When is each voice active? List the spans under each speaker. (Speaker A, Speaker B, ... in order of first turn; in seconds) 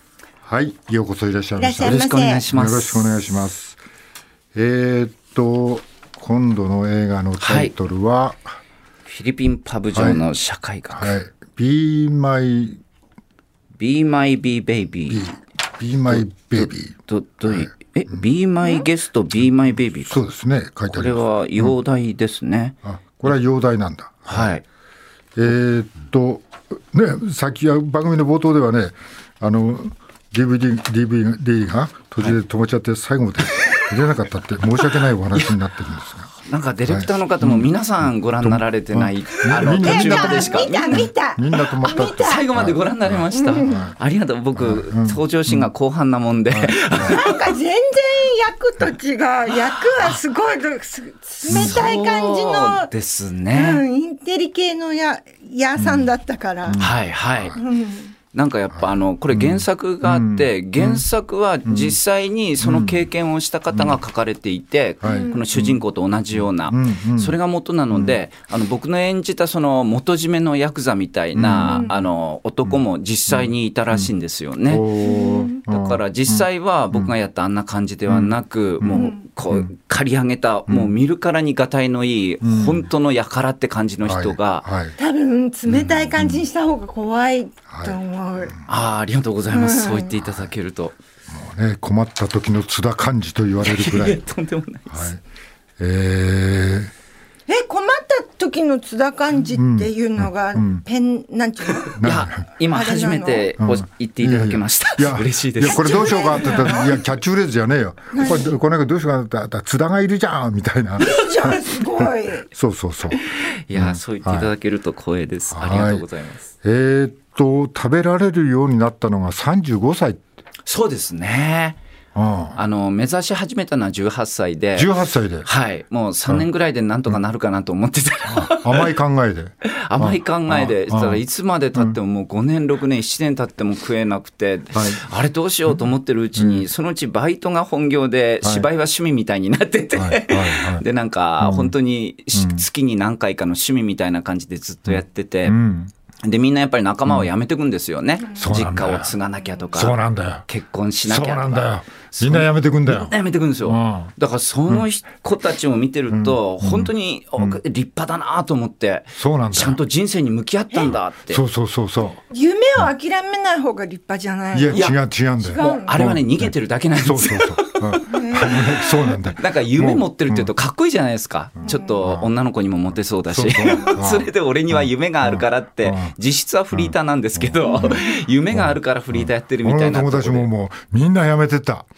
Speaker A: 0.5-3.8, 4.5-8.6, 9.9-10.2, 10.9-12.8, 15.1-17.0, 20.1-21.7, 22.9-24.5, 25.4-36.3, 36.9-37.7, 38.4-44.0, 44.6-45.7, 46.5-47.3, 51.5-51.8, 55.8-56.0, 56.7-57.6, 59.3-61.0, 61.7-62.0, 62.6-63.1, 63.7-64.0, 65.0-67.4, 71.3-71.9, 72.7-74.1, 74.7-77.1, 78.1-79.7, 80.7-80.9, 82.4-82.9, 84.0-85.0, 85.7-86.4, 87.7-88.0, 91.3-94.2, 94.9-95.2, 95.8-96.9, 99.5-100.8, 102.0-102.5, 103.6-114.5, 115.5-116.1, 116.6-120.2, 122.2-122.6, 124.8-125.5, 128.3-131.2, 134.7-135.0, 136.4-136.7, 140.0-140.8, 141.4-141.7, 142.3-142.6, 144.9-145.9, 148.3-149.1, 149.7-150.4, 151.1-154.1, 156.1-157.6, 159.2-159.8, 161.3-162.2, 164.5-170.5, 171.6-172.3, 173.3-176.1, 176.7-181.9
Speaker B: 1.6-2.4, 39.8-42.4, 43.3-43.8, 47.0-52.9, 53.5-56.8, 57.5-58.1, 65.0-65.4, 71.7-71.9, 75.0-75.6, 79.0-79.2, 85.0-88.6, 89.5-90.1, 97.5-102.0, 102.7-103.5, 105.6-107.0, 108.1-108.5, 111.0-112.5, 162.3-165.9, 168.0-168.8, 171.7-171.9
Speaker C: 1.8-3.3, 7.4-7.7, 9.1-11.2, 13.8-15.3, 16.1-20.2, 20.9-22.8, 24.3-24.6, 33.5-33.9, 34.8-35.6, 36.4-41.1, 42.1-47.5, 51.5-53.8, 56.8-57.6, 58.3-74.9, 75.5-84.7, 88.7-91.0, 93.6-95.1, 101.9-106.7, 113.7-116.5, 120.7-121.8, 122.5-124.9, 125.5-128.9, 129.7-145.6, 146.2-161.4, 164.7-165.0, 165.5-180.5